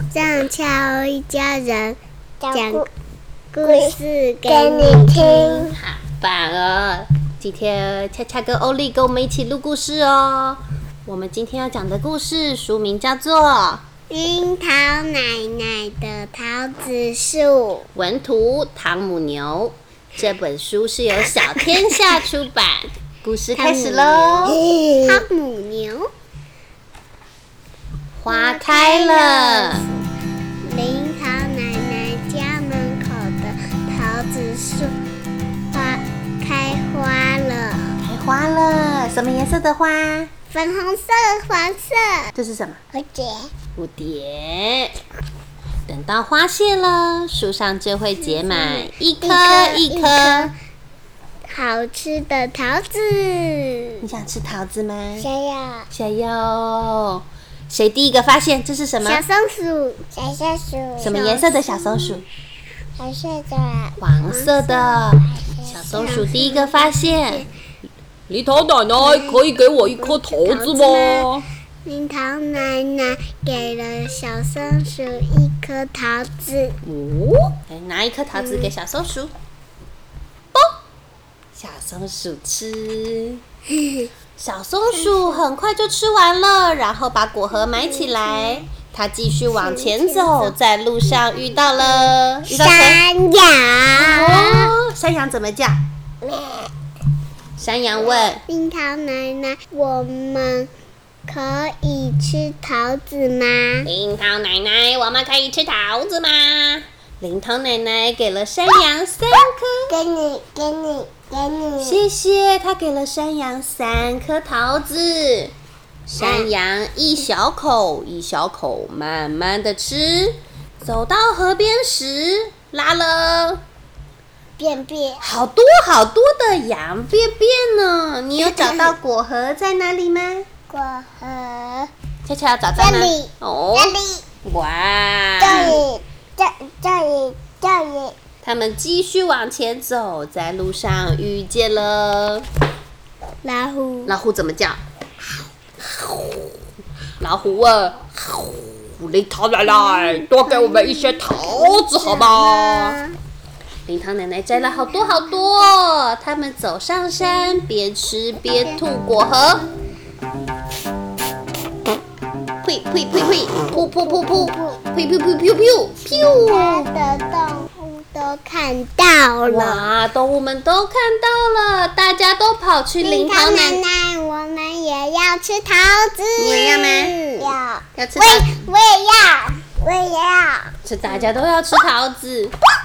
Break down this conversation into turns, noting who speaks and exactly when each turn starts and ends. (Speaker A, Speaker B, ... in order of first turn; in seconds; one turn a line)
Speaker A: 0.1-2.0
Speaker B: 2.4-2.9
Speaker A: 2.5-2.9
Speaker A: 3.5-5.7
Speaker B: 3.6-4.0
Speaker B: 4.5-5.8
Speaker C: 5.7-13.8
Speaker A: 14.1-17.9
Speaker C: 17.9-24.6
Speaker A: 23.6-26.1
Speaker B: 24.5-25.2
Speaker C: 28.2-29.9
Speaker A: 28.3-29.9
Speaker A: 30.6-34.9
Speaker A: 35.7-38.0
Speaker C: 38.0-40.3
Speaker A: 40.5-42.3
Speaker C: 42.4-42.8
Speaker A: 42.9-43.3
Speaker C: 43.8-45.0
Speaker C: 45.9-50.5
Speaker A: 48.2-50.5
Speaker A: 51.5-54.1
Speaker C: 54.0-55.3
Speaker A: 55.2-55.5
Speaker B: 55.4-55.9
Speaker C: 55.9-59.2
Speaker A: 59.0-60.2
Speaker B: 60.2-61.1
Speaker A: 61.0-62.2
Speaker C: 61.0-62.3
Speaker B: 63.0-64.0
Speaker C: 64.0-67.4
Speaker A: 64.2-65.2
Speaker A: 65.8-67.5
Speaker C: 68.3-71.5
Speaker A: 69.0-71.3
Speaker A: 71.8-76.8
Speaker C: 76.8-79.3
Speaker A: 78.3-78.7
Speaker C: 81.5-83.4
Speaker A: 83.8-84.1
Speaker C: 84.4-93.0
Speaker A: 89.5-90.5
Speaker A: 92.5-94.7
Speaker C: 94.0-95.8
Speaker B: 96.2-96.7
Speaker C: 97.6-98.4
Speaker A: 98.5-100.7
Speaker A: 101.3-103.9
Speaker C: 103.9-110.0
Speaker B: 109.9-112.0
Speaker C: 111.8-115.5
Speaker C: 116.1-123.6
Speaker B: 116.2-116.5
Speaker B: 124.6-125.2
Speaker C: 125.2-130.4
Speaker B: 130.7-131.9
Speaker C: 132.2-135.8
Speaker A: 132.8-133.2
Speaker B: 133.8-134.2
Speaker B: 135.4-138.2
Speaker C: 138.4-142.5
Speaker A: 143.4-144.2
Speaker C: 144.1-144.8
Speaker C: 147.2-153.0
Speaker A: 149.7-153.1
Speaker C: 153.8-159.7
Speaker A: 158.4-158.8
Speaker C: 162.6-166.9
Speaker B: 164.0-164.8
Speaker A: 166.1-169.9
Speaker C: 169.5-173.8
Speaker A: 173.0-177.5
Speaker C: 176.4-177.3
Speaker B: 177.4-177.8
Speaker C: 177.9-178.7
Speaker A: 178.2-178.7
Speaker B: 178.5-180.7
Speaker C: 180.8-182.6